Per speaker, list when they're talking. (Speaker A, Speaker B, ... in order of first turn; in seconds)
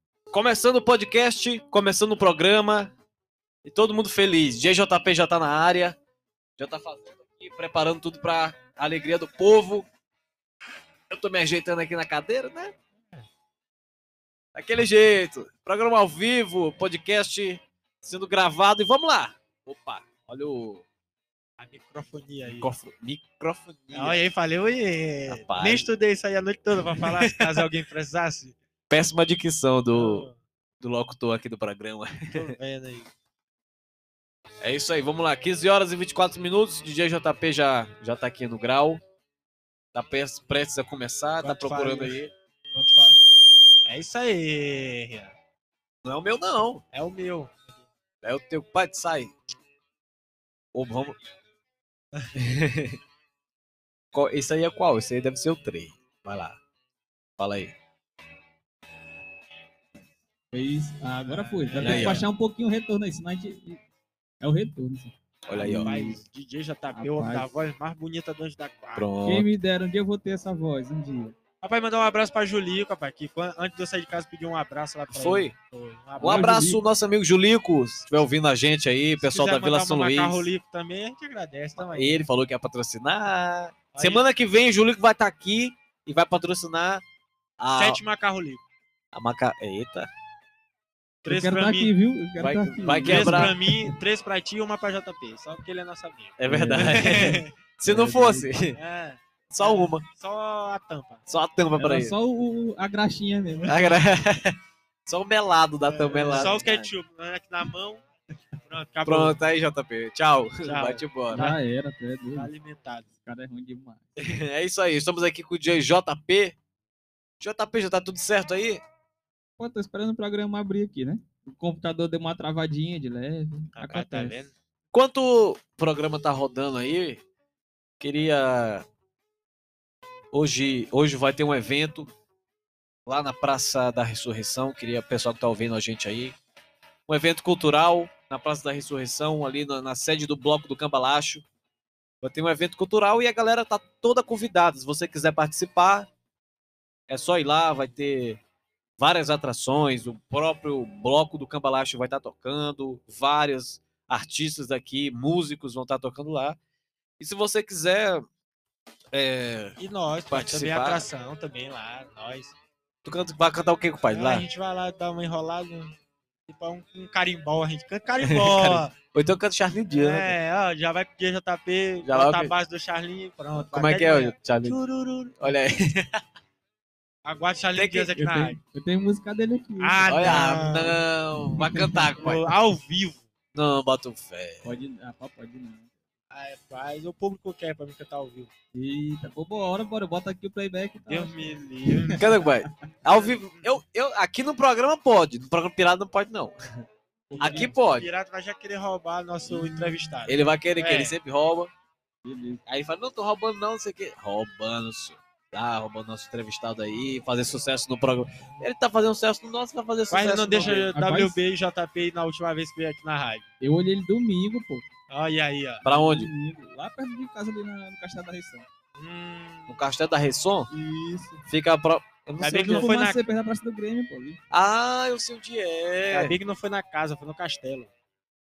Speaker A: 0.3-2.9, 3.6-6.0, 6.6-9.9, 11.1-12.7, 14.5-20.8, 22.6-24.2, 25.3-25.9, 26.9-27.6, 28.9-30.3, 30.8-32.5, 34.6-39.0, 39.9-42.3, 46.0-46.8, 48.2-49.3, 50.7-51.2, 52.4-53.0, 54.1-56.6, 57.4-57.8, 61.8-62.2, 65.5-66.0, 68.9-69.5, 75.1-75.5, 76.2-80.5, 81.8-87.0, 87.6-88.0, 89.1-90.1, 92.4-93.5, 96.4-98.8, 99.5-100.0, 101.3-102.1, 103.7-106.9, 109.0-111.5, 114.2-116.5, 117.4-118.8, 124.9-127.2, 128.0-128.8, 130.3-132.1, 133.1-136.3, 137.1-141.4, 142.2-146.1, 147.1-148.4, 149.0-156.6, 157.2-158.2, 159.1-159.8, 160.3-161.1, 163.0-164.4, 168.2-170.3, 172.0-172.5, 173.7-174.8, 175.4-176.2, 177.7-178.1, 180.1-182.4, 183.5-184.7, 192.2-196.6, 197.4-198.1, 200.3-201.7, 202.7-210.9, 215.8-216.3, 219.7-220.7, 221.5-222.9, 224.5-226.4
Speaker B: 21.6-22.7, 23.9-28.6, 29.9-30.4, 32.3-33.1, 41.4-42.1, 42.7-43.2, 43.9-45.3, 46.9-47.9, 61.2-62.2, 65.6-69.1, 71.6-76.6, 79.2-82.2, 83.9-84.2, 87.8-88.6, 91.2-91.9, 93.0-97.5, 98.2-101.3, 105.9-108.0, 108.6-109.3, 110.6-111.6, 112.3-113.0, 123.7-124.5, 159.8-162.5, 164.1-165.9, 166.5-168.9, 169.9-175.4, 177.2-178.6, 179.8-181.0, 182.2-183.2, 186.3-188.5, 191.1-192.2, 193.1-193.7, 197.3-201.2, 210.1-213.4, 215.1-215.8, 218.9-219.8, 222.4-223.2, 226.1-227.9
Speaker C: 60.5-63.8, 64.4-66.2, 66.9-67.5, 69.2-71.3, 76.2-76.8, 91.3-93.9, 96.5-98.4, 101.8-104.0, 111.3-112.5, 113.2-114.0, 119.6-124.3, 178.2-180.4, 181.5-182.1, 184.6-185.9, 188.7-192.7, 197.3-197.7, 199.5-199.9, 202.2-202.6, 210.6-211.4, 213.6-214.8, 215.8-218.7, 220.7-221.5, 222.6-224.4